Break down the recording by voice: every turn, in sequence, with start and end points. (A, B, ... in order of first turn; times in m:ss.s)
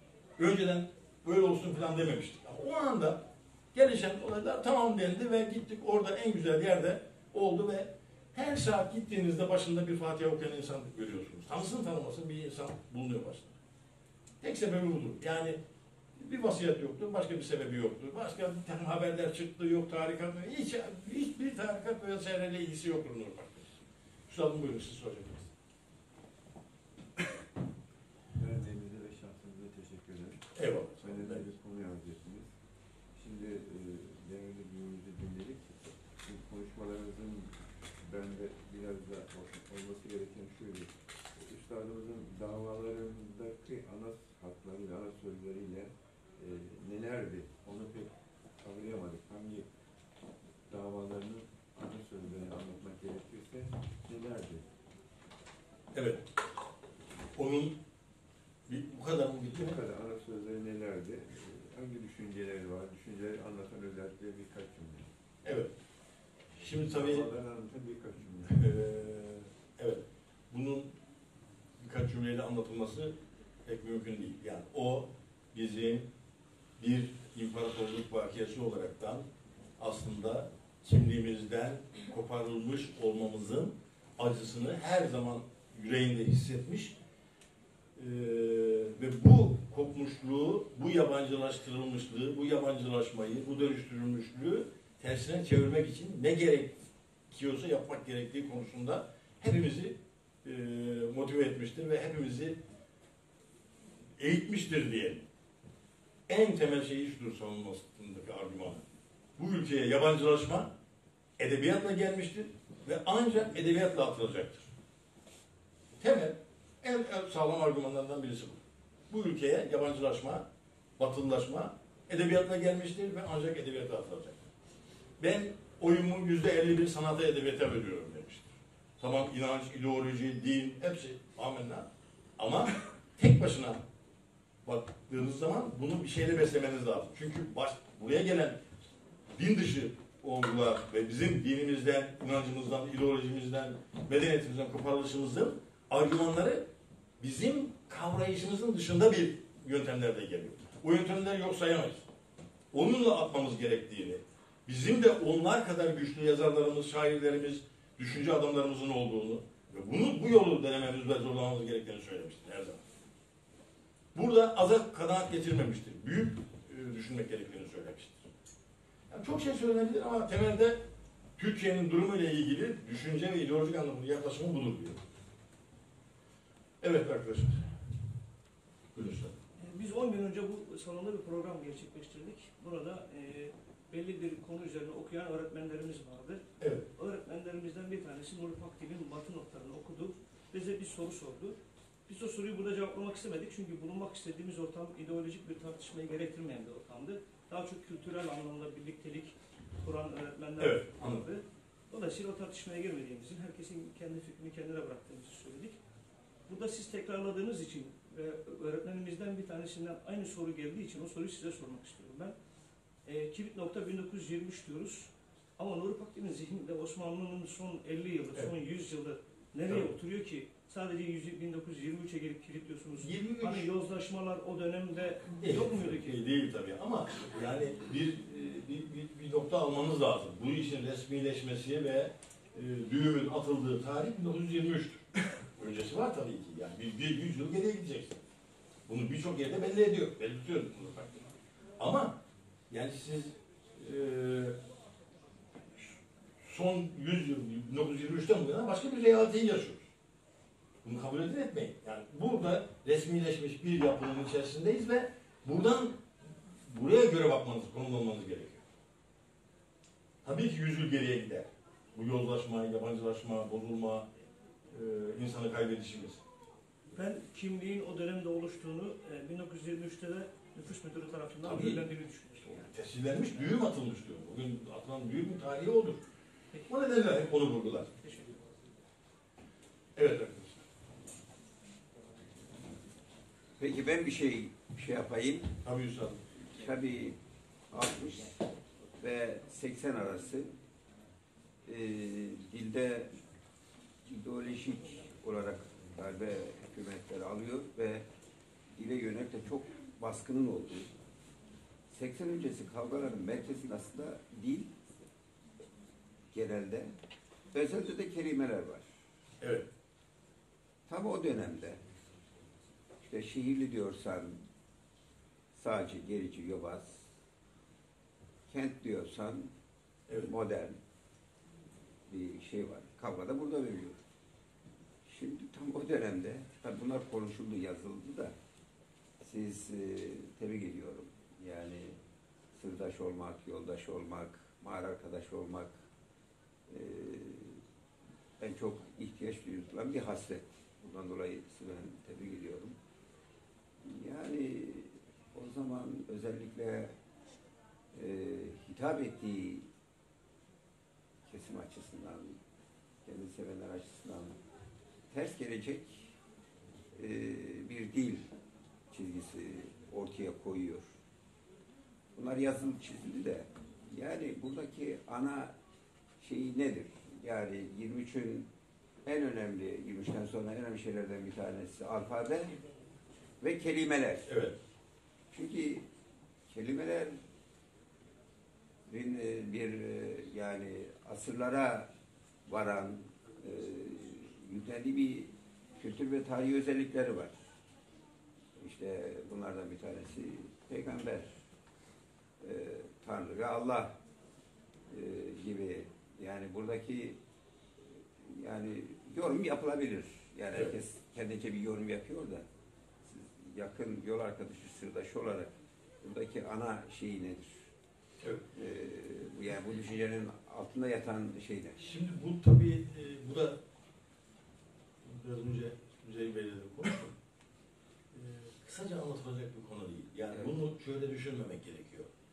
0:00.4-0:13.6 A
0:14.4-0:15.6 A
0:16.2-0:23.7 A
0:24.3-0:25.5 A
0:28.3-0:30.4 B
0:30.6-0:31.4 A
0:31.0-0:32.5 B
0:33.2-0:49.7 B
0:50.7-0:54.6 B
0:55.9-0:56.2 A
0:57.4-0:57.8 A
0:58.7-0:59.8 A
0:59.6-1:05.1 B
1:05.4-1:05.7 A
1:06.6-1:07.3 A
1:06.6-1:08.7 B
1:08.5-1:10.9 A
1:11.8-1:16.1 A
1:16.8-1:19.2 A
1:19.8-1:27.0 A
1:28.0-1:42.6 A
1:44.2-1:45.2 A
1:46.3-1:48.8 A
1:49.4-1:50.7 A
1:51.4-1:54.7 A
1:56.0-2:00.5 A
2:01.0-2:04.4 A
2:05.2-2:11.9 A
2:12.4-2:13.8 A
2:14.6-2:18.6 A
2:19.4-2:26.7 A
2:27.2-2:32.1 A
2:32.7-2:42.8 A
2:44.1-2:48.3 A
2:49.1-2:50.8 A
2:51.4-2:55.0 A
2:56.8-2:57.8 A
2:58.9-2:59.4 A
2:59.6-3:06.4 C
3:06.6-3:06.9 A
3:07.0-3:25.8 C
3:20.6-3:21.3 A
3:26.5-3:32.4 C
3:33.0-3:46.2 C
3:43.0-3:43.7 A
3:45.4-3:55.0 A
3:55.6-3:58.2 A
3:58.9-4:01.3 A
4:01.8-4:04.6 A
4:06.4-4:09.9 A
4:10.8-4:16.0 A
4:16.7-4:18.6 A
4:20.2-4:24.1 A
4:24.7-4:26.2 A
4:26.9-4:32.5 C
4:31.4-4:31.8 A
4:32.4-4:36.0 A
4:36.7-4:37.9 A
4:38.0-4:38.4 C
4:40.0-4:40.6 A
4:43.6-4:45.6 D
4:45.6-4:46.2 A
4:46.5-4:47.2 D
4:47.7-4:48.4 D
4:49.0-4:50.5 D
4:51.6-4:53.1 D
4:54.1-4:58.0 D
4:58.8-5:00.9 D
5:01.9-5:04.7 D
5:06.3-5:06.9 D
5:07.5-5:08.9 D
5:09.4-5:09.7 A
5:10.9-5:11.8 D
5:13.0-5:14.4 D
5:15.6-5:17.0 D
5:18.5-5:19.5 D
5:20.2-5:20.8 D
5:22.1-5:24.0 D
5:25.1-5:28.4 D
5:29.2-5:32.0 D
5:32.6-5:35.7 D
5:36.7-5:37.6 D
5:38.4-5:42.8 D
5:43.8-5:46.9 D
5:47.9-5:49.7 D
5:51.3-5:52.4 D
5:53.0-5:54.4 D
5:55.1-5:56.1 D
5:57.0-5:58.3 D
5:58.9-6:00.9 D
6:02.2-6:05.5 D
6:06.2-6:08.5 D
6:09.0-6:12.6 D
6:13.4-6:14.3 D
6:14.3-6:14.6 A
6:15.3-6:15.9 D
6:16.5-6:17.2 D
6:18.9-6:21.9 D
6:22.5-6:27.4 D
6:28.6-6:31.3 D
6:32.4-6:34.0 D
6:34.9-6:37.2 D
6:38.2-6:42.4 D
6:43.0-6:47.7 D
6:48.5-6:51.8 D
6:51.8-6:53.6 A
6:55.0-6:57.2 A
6:58.1-7:02.1 A